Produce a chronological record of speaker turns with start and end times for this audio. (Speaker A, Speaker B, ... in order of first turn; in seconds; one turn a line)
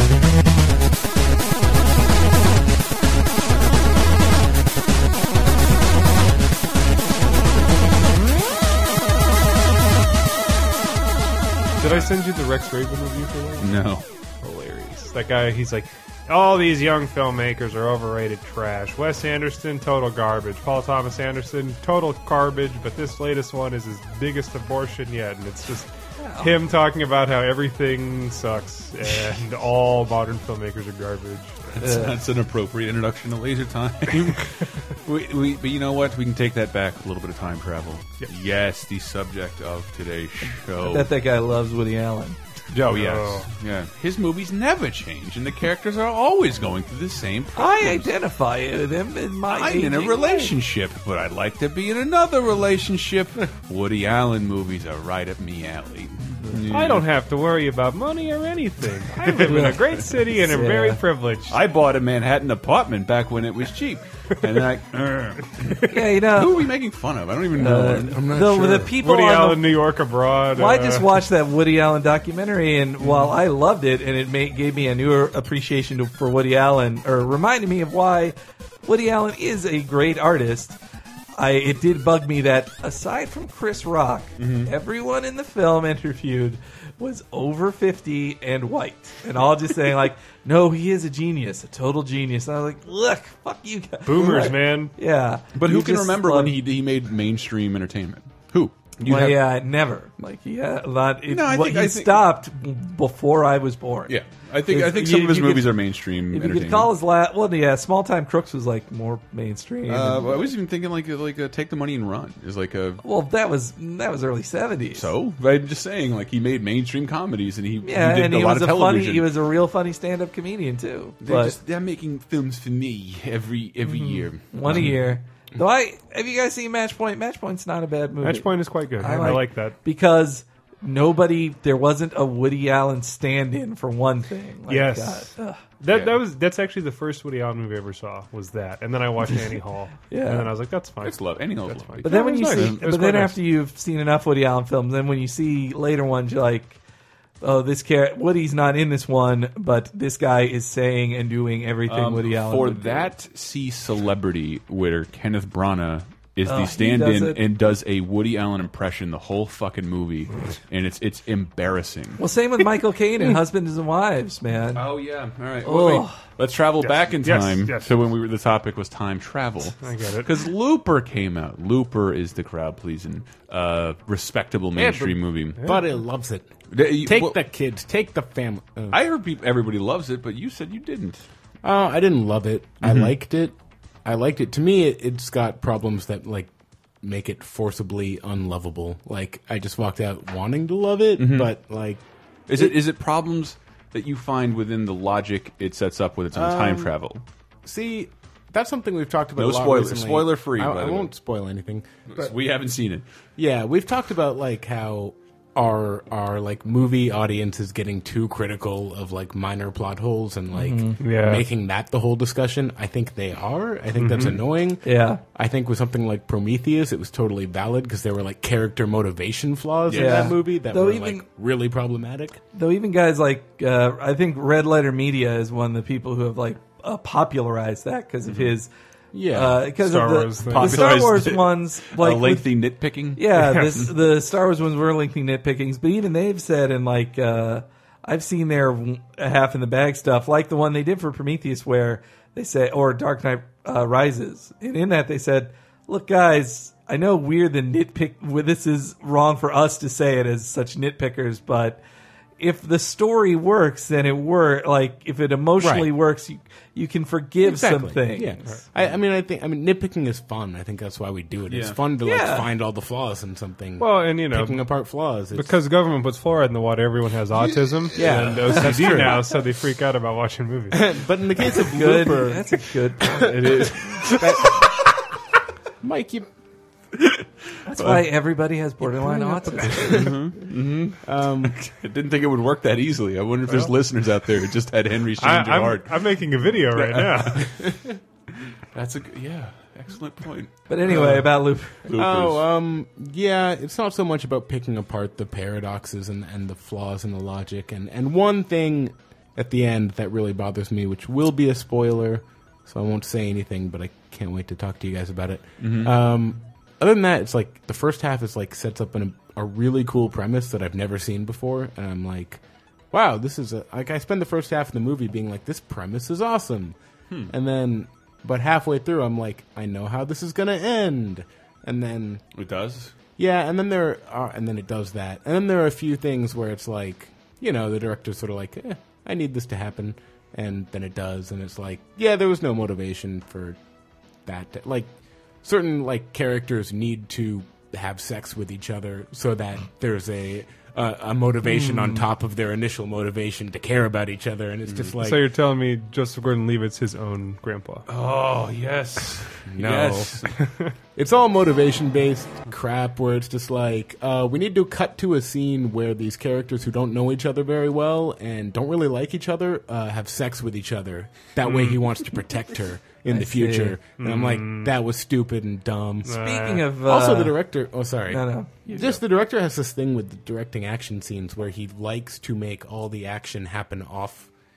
Speaker A: 11.8-31.6
Speaker B: 11.8-12.1
Speaker B: 13.6-14.0
Speaker C: 26.2-26.5
Speaker B: 31.7-41.1
Speaker C: 31.8-32.1
Speaker C: 40.7-42.4
Speaker A: 42.7-43.5
Speaker B: 42.8-48.1
Speaker C: 47.5-50.5
Speaker B: 49.5-57.0
Speaker A: 56.7-61.6
Speaker C: 59.3-61.0
Speaker B: 61.5-68.2
Speaker C: 65.9-66.7
Speaker C: 67.6-69.8
Speaker D: 68.0-68.9
Speaker A: 69.0-71.1
Speaker C: 70.5-80.8
Speaker C: 81.3-96.5
Speaker B: 84.4-84.7
Speaker A: 94.0-94.9
Speaker B: 95.5-99.4
Speaker C: 99.0-104.1
Speaker B: 101.3-102.3
Speaker B: 104.1-106.9
Speaker C: 104.7-110.5
Speaker B: 109.9-113.0
Speaker C: 113.0-115.1
Speaker B: 115.0-119.3
Speaker C: 117.8-121.5
Speaker B: 121.2-124.9
Speaker C: 123.8-135.6
Speaker A: 128.2-129.8
Speaker A: 134.7-143.4
Speaker B: 135.9-136.1
Speaker C: 140.1-140.5
Speaker B: 141.0-142.8
Speaker C: 142.0-146.8
Speaker D: 142.1-142.7
Speaker C: 147.4-153.1
Speaker B: 151.8-162.2
Speaker C: 156.4-157.4
Speaker C: 162.2-164.9
Speaker B: 164.7-175.6
Speaker C: 165.6-166.2
Speaker A: 166.8-167.9
Speaker A: 169.8-170.3
Speaker D: 174.8-179.0
Speaker B: 176.7-177.4
Speaker B: 178.9-181.2
Speaker D: 181.6-186.5
Speaker B: 182.8-183.1
Speaker D: 187.0-192.0
Speaker B: 191.2-191.5
Speaker B: 192.5-197.2
Speaker D: 196.3-196.9
Speaker D: 197.6-202.2
Speaker B: 199.3-201.1
Speaker B: 202.1-203.0
Speaker D: 203.4-222.4
Speaker C: 210.5-211.0
Speaker A: 211.0-211.4
Speaker A: 214.0-214.3
Speaker C: 214.8-215.2
Speaker B: 219.9-220.3
Speaker C: 219.9-221.2
Speaker C: 222.5-228.7
Speaker B: 228.3-228.5
Speaker D: 229.1-229.6
Speaker C: 229.3-232.5
Speaker A: 229.8-231.0
Speaker B: 230.4-233.2
Speaker C: 233.2-251.8
Speaker A: 233.3-233.9
Speaker C: 252.4-258.6
Speaker D: 255.6-255.9
Speaker D: 257.4-265.6
Speaker B: 261.5-261.8
Speaker C: 262.0-262.5
Speaker A: 263.8-264.6
Speaker A: 265.3-270.9
Speaker D: 267.9-269.4
Speaker C: 268.4-269.0
Speaker D: 270.7-272.5
Speaker C: 271.7-273.6
Speaker D: 273.3-274.7
Speaker B: 273.4-274.5
Speaker D: 275.8-276.3
Speaker B: 276.9-278.1
Speaker C: 277.6-280.1
Speaker D: 278.8-280.1
Speaker B: 279.9-286.2
Speaker D: 281.0-281.6
Speaker A: 285.2-287.5
Speaker B: 286.7-287.5
Speaker B: 288.7-291.1
Speaker C: 290.7-291.9
Speaker D: 290.9-291.2
Speaker B: 291.9-292.4
Speaker D: 291.9-322.2
Speaker B: 305.6-306.0
Speaker B: 322.4-322.9
Speaker D: 323.2-333.6
Speaker D: 334.2-334.9
Speaker D: 335.4-345.3
Speaker A: 341.5-342.0
Speaker A: 345.0-347.8
Speaker B: 347.9-350.3
Speaker D: 349.6-350.1
Speaker A: 350.4-350.7
Speaker D: 350.9-374.3
Speaker A: 361.4-361.8
Speaker C: 363.1-363.8
Speaker A: 364.0-364.7
Speaker C: 366.1-367.4
Speaker A: 366.1-366.6
Speaker C: 368.1-369.0